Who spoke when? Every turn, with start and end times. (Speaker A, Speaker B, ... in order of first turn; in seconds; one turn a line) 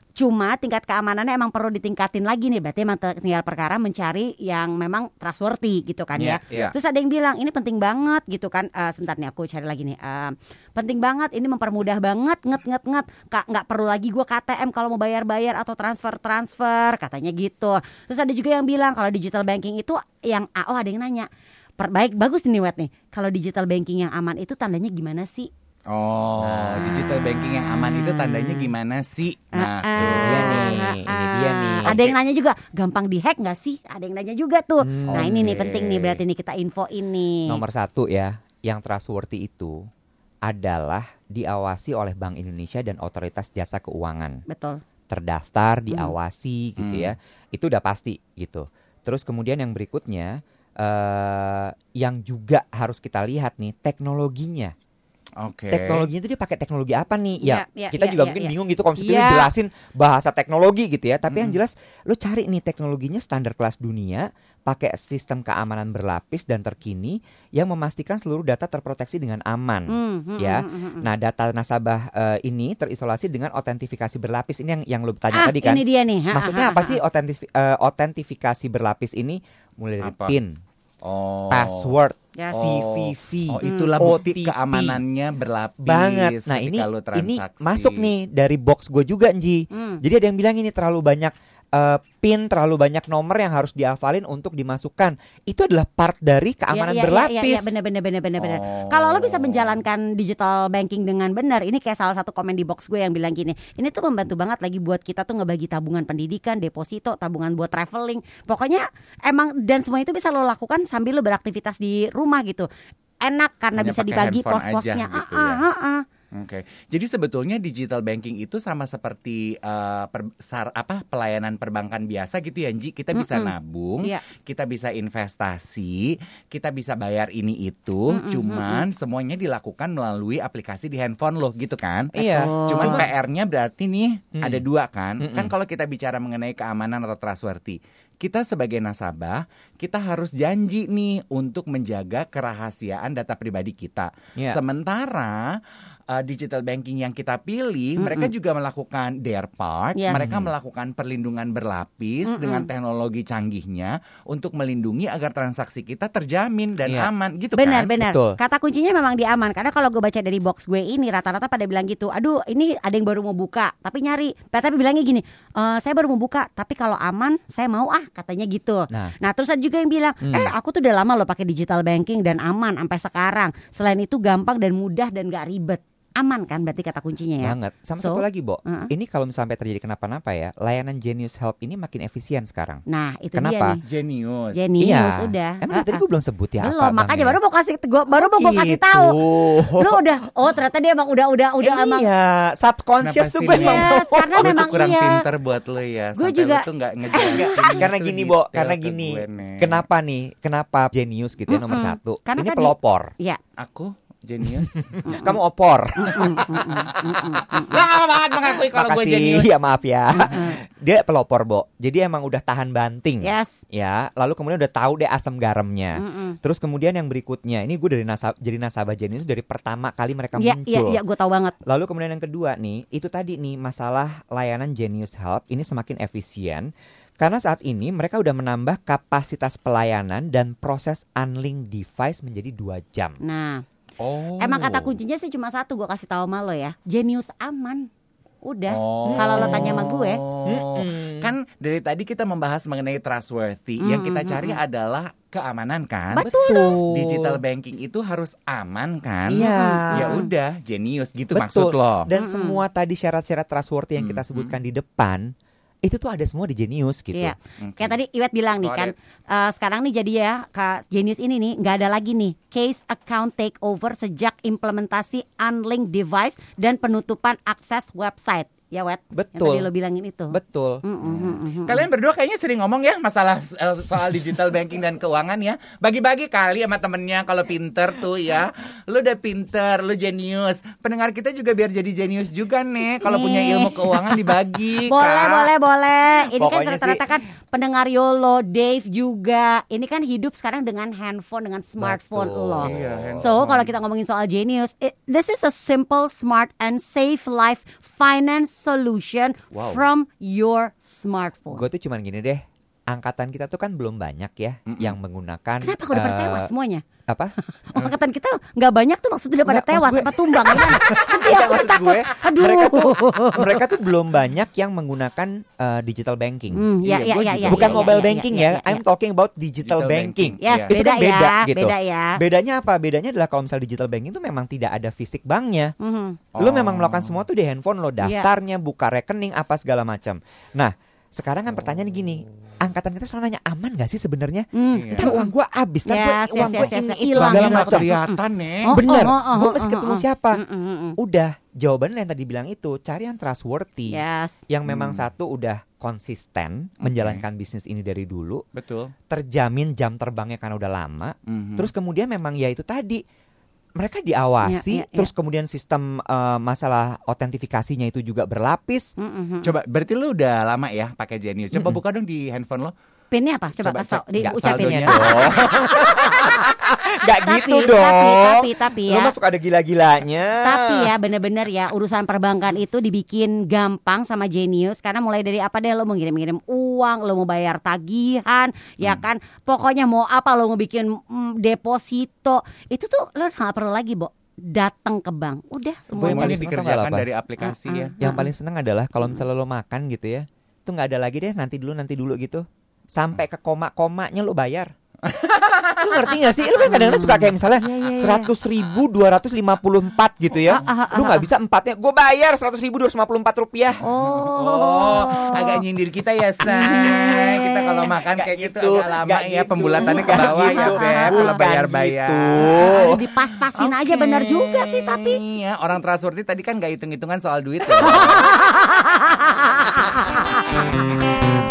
Speaker A: 0.2-25.5
Speaker B: 6.2-6.7
Speaker B: 25.9-30.8
Speaker C: 26.4-27.0
Speaker A: 27.2-28.7
Speaker A: 29.5-37.6
Speaker C: 30.0-32.0
Speaker B: 31.9-32.1
Speaker C: 34.8-35.6
Speaker B: 35.1-36.2
Speaker C: 37.5-39.9
Speaker C: 40.5-44.4
Speaker A: 44.5-44.8
Speaker C: 45.1-54.7
Speaker B: 46.8-47.1
Speaker B: 55.4-56.1
Speaker C: 55.7-80.6
Speaker A: 57.4-59.5
Speaker B: 61.3-61.6
Speaker A: 69.9-71.1
Speaker A: 75.3-77.0
Speaker B: 80.0-80.4
Speaker B: 81.0-81.9
Speaker C: 81.5-85.0
Speaker B: 82.5-88.1
Speaker A: 83.6-83.9
Speaker C: 85.9-97.7
Speaker A: 89.7-90.0
Speaker A: 96.7-112.7
Speaker B: 98.4-99.8
Speaker A: 113.2-116.0
Speaker B: 113.8-115.6
Speaker B: 116.3-145.6
Speaker A: 123.2-124.2
Speaker A: 128.1-128.8
Speaker C: 132.1-133.1
Speaker A: 132.3-133.1
Speaker C: 135.2-135.5
Speaker B: 146.1-157.9
Speaker A: 148.0-148.3
Speaker A: 150.0-150.2
Speaker C: 150.2-150.5
Speaker A: 152.3-152.7
Speaker A: 157.6-178.9
Speaker C: 158.0-158.4
Speaker C: 170.2-170.5
Speaker C: 177.4-182.8
Speaker A: 182.9-183.8
Speaker C: 183.3-183.8
Speaker B: 183.8-184.7
Speaker A: 184.6-186.0
Speaker C: 184.8-187.4
Speaker A: 186.6-192.1
Speaker C: 188.1-190.0
Speaker C: 191.6-194.7
Speaker B: 193.0-199.8
Speaker A: 193.5-195.2
Speaker A: 196.2-197.8
Speaker C: 197.3-203.1
Speaker A: 201.5-203.4
Speaker B: 203.6-205.0
Speaker A: 205.1-205.3
Speaker C: 205.1-206.6
Speaker A: 206.0-207.8
Speaker B: 206.7-209.6
Speaker C: 208.5-221.0
Speaker A: 210.1-210.6
Speaker A: 213.2-213.6
Speaker A: 216.0-216.4
Speaker A: 220.4-221.6
Speaker C: 221.7-233.2
Speaker A: 233.2-233.6
Speaker B: 234.0-234.9
Speaker A: 234.4-237.9
Speaker A: 238.4-240.2
Speaker B: 238.7-252.1
Speaker C: 239.1-239.9
Speaker C: 240.4-241.3
Speaker A: 243.8-244.6
Speaker A: 246.1-246.8
Speaker C: 246.2-247.4
Speaker C: 249.3-250.2
Speaker A: 249.4-250.3
Speaker C: 251.3-255.3
Speaker A: 252.2-252.6
Speaker B: 254.0-254.5
Speaker C: 255.8-257.4
Speaker A: 257.1-271.9
Speaker B: 257.6-257.9
Speaker B: 258.6-258.9
Speaker C: 269.1-269.7
Speaker C: 270.3-270.8
Speaker B: 271.1-285.5
Speaker A: 283.0-284.2
Speaker A: 284.8-301.7
Speaker C: 286.4-287.0
Speaker C: 291.8-293.3
Speaker B: 292.6-293.7
Speaker C: 299.5-299.8
Speaker C: 301.5-306.5
Speaker B: 304.7-305.0
Speaker A: 305.6-306.9
Speaker C: 307.1-307.3
Speaker A: 307.5-313.6
Speaker C: 309.5-316.7
Speaker A: 316.5-318.8
Speaker B: 316.8-317.9
Speaker C: 317.4-325.7
Speaker B: 319.6-320.7
Speaker A: 320.4-322.2
Speaker A: 325.8-326.2
Speaker B: 326.3-327.2
Speaker C: 326.4-337.9
Speaker A: 328.0-328.3
Speaker A: 334.5-335.3
Speaker B: 334.7-335.1
Speaker A: 335.9-341.0
Speaker B: 336.4-338.8
Speaker C: 338.7-340.4
Speaker C: 341.0-348.4
Speaker A: 343.9-344.4
Speaker B: 344.7-345.0
Speaker B: 346.8-347.2
Speaker B: 348.6-348.9
Speaker C: 349.1-353.0
Speaker B: 351.3-351.7
Speaker C: 353.8-358.9
Speaker A: 354.4-355.1
Speaker A: 359.0-359.6
Speaker B: 359.4-362.7
Speaker A: 363.1-369.1
Speaker B: 363.6-365.5
Speaker C: 364.2-370.9
Speaker A: 370.4-386.4
Speaker B: 385.9-387.9
Speaker C: 386.0-387.1
Speaker A: 387.4-388.3
Speaker C: 388.0-394.7
Speaker B: 395.0-396.1
Speaker C: 395.8-403.8
Speaker A: 396.6-398.3
Speaker A: 400.5-401.3
Speaker A: 403.8-405.6
Speaker B: 404.0-413.0
Speaker A: 406.4-407.9
Speaker C: 408.0-413.0
Speaker A: 409.8-411.4
Speaker A: 412.5-415.2
Speaker B: 413.5-418.3
Speaker A: 417.8-420.9